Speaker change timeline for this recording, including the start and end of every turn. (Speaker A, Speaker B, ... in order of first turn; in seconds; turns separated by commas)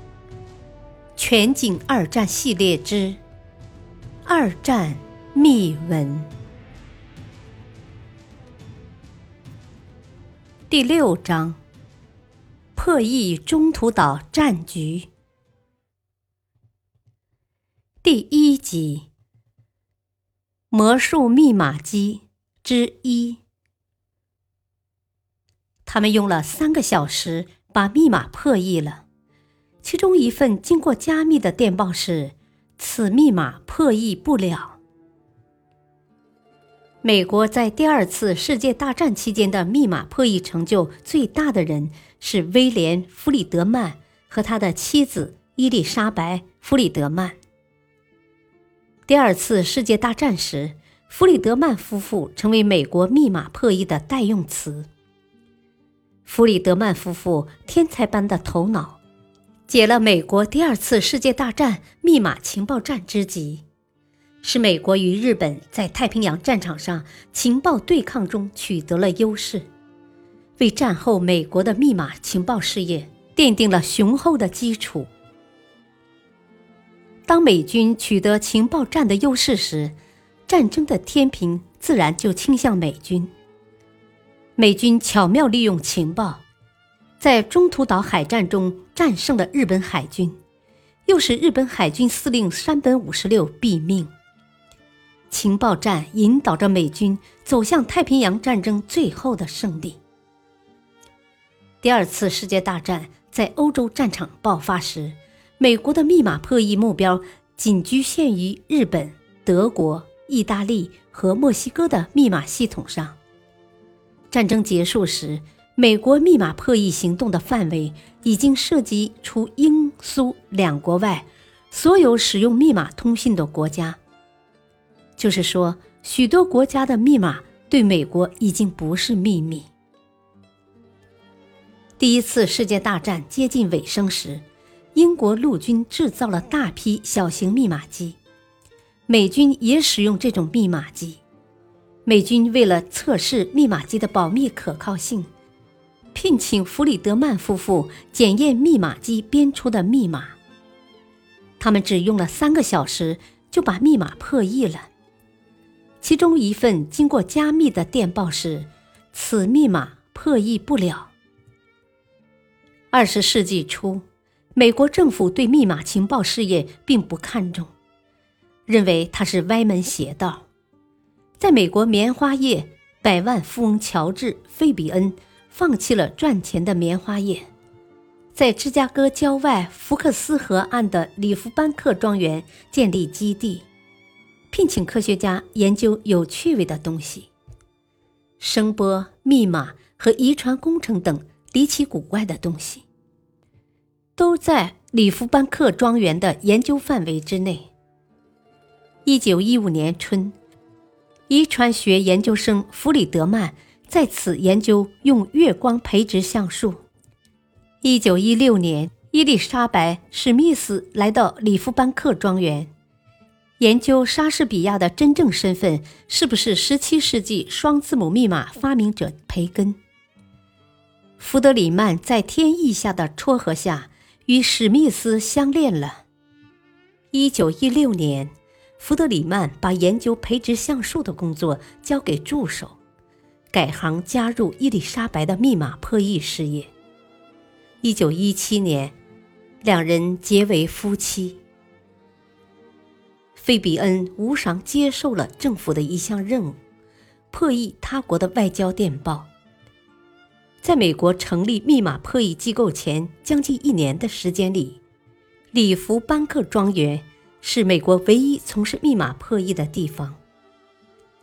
Speaker A: 1.2-3.2, Speaker A: 4.3-6.3, Speaker A: 10.7-11.6, Speaker A: 12.8-15.1, Speaker A: 18.0-19.1, Speaker A: 20.7-23.4, Speaker A: 25.9-29.1, Speaker A: 29.8-34.8, Speaker A: 37.0-47.4, Speaker A: 49.1-54.9, Speaker A: 56.3-59.0, Speaker A: 59.7-63.6, Speaker A: 64.4-69.7, Speaker A: 70.6-75.1, Speaker A: 77.3-80.0, Speaker A: 80.5-83.3, Speaker A: 84.6-86.4, Speaker A: 87.2-90.4, Speaker A: 91.1-94.1, Speaker A: 95.3-100.0, Speaker A: 101.8-113.2, Speaker A: 114.3-124.0, Speaker A: 125.2-129.7, Speaker A: 132.0-134.4, Speaker A: 134.9-138.2, Speaker A: 139.1-141.2, Speaker A: 142.1-145.3, Speaker A: 146.1-150.4, Speaker A: 151.6-154.9, Speaker A: 156.0-161.1, Speaker A: 162.9-164.0, Speaker A: 164.6-167.7, Speaker A: 168.7-170.5, Speaker A: 171.4-177.5, Speaker A: 178.3-183.7, Speaker A: 184.5-187.3, Speaker A: 188.4-192.8, Speaker A: 194.2-197.7, Speaker A: 199.1-200.3, Speaker A: 201.3-206.8, Speaker A: 207.8-212.7, Speaker A: 213.6-219.8, Speaker A: 221.2-226.0, Speaker A: 227.1-232.8, Speaker A: 233.5-236.7, Speaker A: 237.8-238.9, Speaker A: 239.6-241.4, Speaker A: 243.4-246.6, Speaker A: 247.3-249.3, Speaker A: 250.6-254.8, Speaker A: 255.5-260.2